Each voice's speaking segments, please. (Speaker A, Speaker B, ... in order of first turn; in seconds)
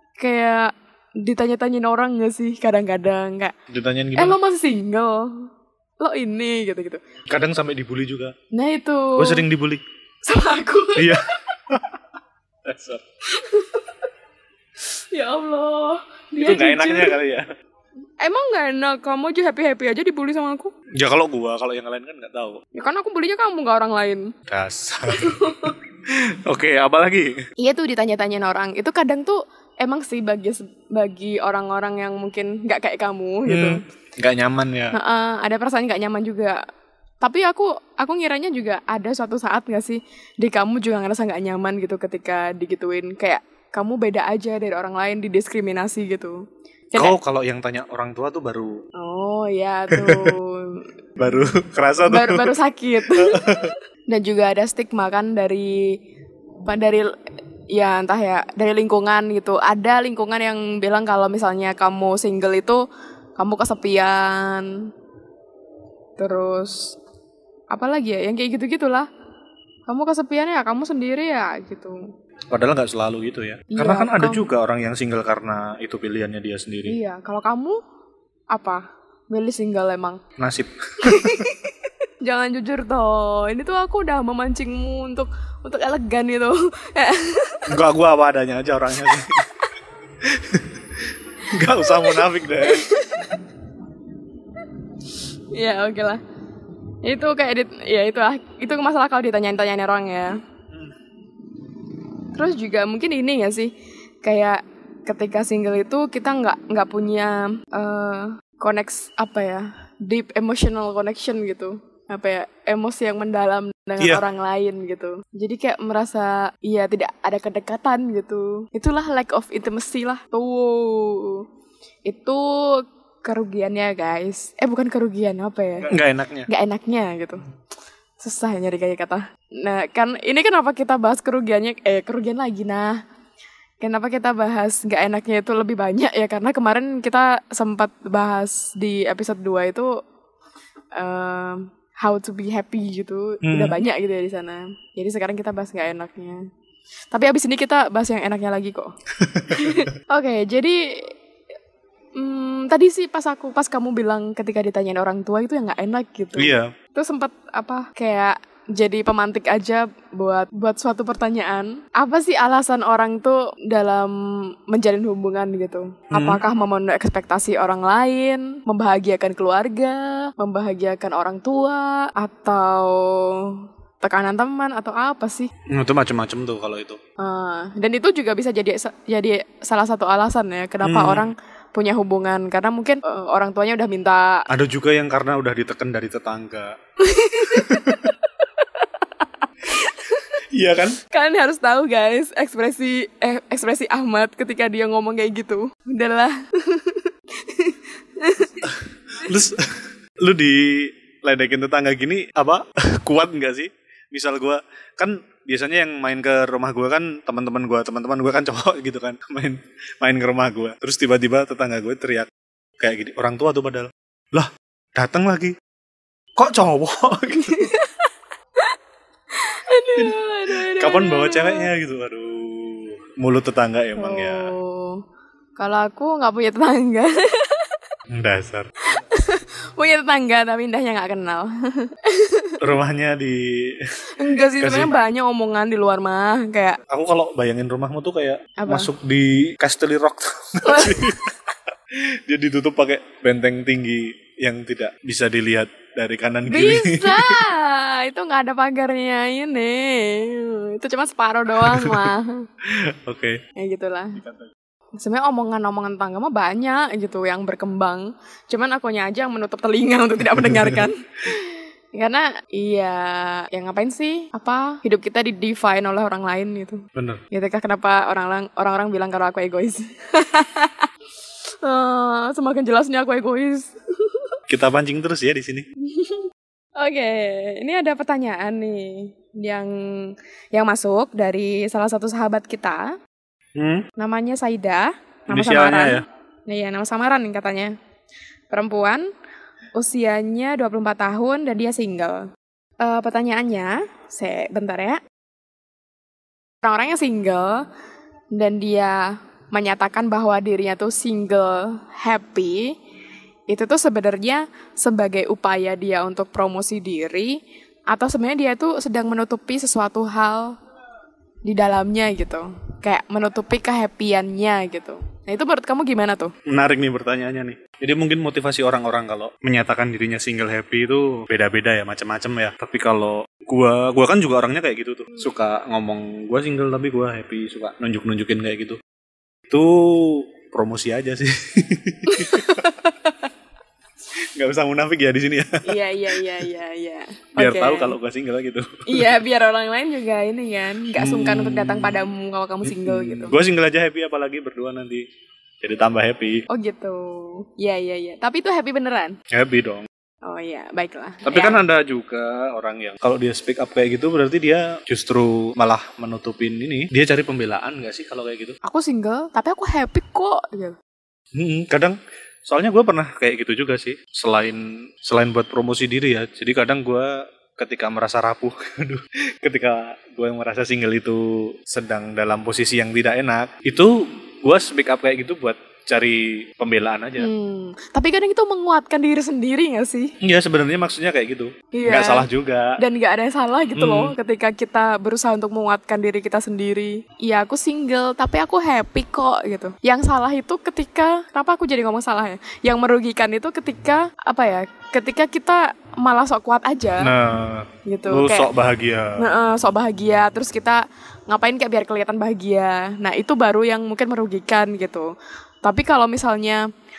Speaker A: 0.2-3.5, 4.1-7.0, 8.5-9.4, 10.2-11.5, 13.3-14.0, 15.1-17.2, 18.2-20.7, 22.7-24.3, 25.1-25.8, 27.6-33.8, 34.9-36.6, 37.2-47.2, 49.0-50.9, 52.0-56.0, 56.6-57.1, 57.7-62.8, 63.4-64.9, 66.2-67.0, 67.7-69.1, 69.9-72.0, 73.7-74.5, 76.8-77.8, 78.5-80.2, 81.0-87.7, 89.1-89.6, 91.5-93.5, 95.5-96.2, 97.0-100.4, 102.3-121.5, 122.0-125.9, 126.5-127.4, 128.2-133.0, 133.8-139.9, 140.9-146.4, 147.1-148.9, 149.5-151.1, 152.2-175.5, 177.2-184.4, 187.0-190.3, 191.1-198.7, 217.3-218.7, 219.3-221.7, 223.9-225.0, 225.6-227.8, 228.8-232.6, 234.1-236.8, 238.6-238.9, 240.6-241.2, 246.5-252.5, 253.6-254.2, 255.0-270.9, 271.6-274.3, 275.8-282.9, 284.0-287.7, 288.5-289.1, 289.8-292.3, 292.8-295.0, 296.6-297.6, 298.3-302.7, 303.5-307.4, 307.9-310.6, 311.4-316.3, 332.1-333.3, 335.6-337.9, 338.9-343.4, 346.5-349.2, 350.2-351.6, 358.6-360.8, 377.2-380.1, 381.7-397.1, 397.9-398.5, 399.2-405.1, 405.6-406.6
Speaker B: 3.7-4.4, 7.3-8.3, 9.2-9.8, 10.9-11.9, 12.6-13.0, 16.4-17.5, 21.0-22.6, 24.5-27.4, 33.5-35.0, 47.0-48.8, 49.9-50.3, 51.2-53.7, 72.5-77.0, 80.4-81.5, 87.7-89.5, 90.2-92.9, 125.9-126.5, 143.4-143.8, 149.2-149.9, 156.4-156.7, 166.1-166.4, 175.7-177.0, 180.8-181.3, 184.5-186.8, 187.4-188.1, 190.5-191.0, 198.6-215.6, 216.3-217.7, 219.9-224.5, 228.1-228.7, 232.6-233.9, 234.6-234.9, 236.9-241.3, 241.9-247.4, 251.6-252.1, 252.6-253.4, 254.2-254.5, 260.3-260.9, 266.9-267.2, 274.5-275.7, 283.6-283.9, 285.3-286.0, 316.4-328.8, 329.5-332.6, 334.3-336.3, 337.4-339.1, 340.9-342.1, 342.6-345.1, 345.6-346.4, 349.3-349.9, 351.3-358.6, 361.3-377.3, 380.2-382.8, 383.7-384.1, 397.0-399.2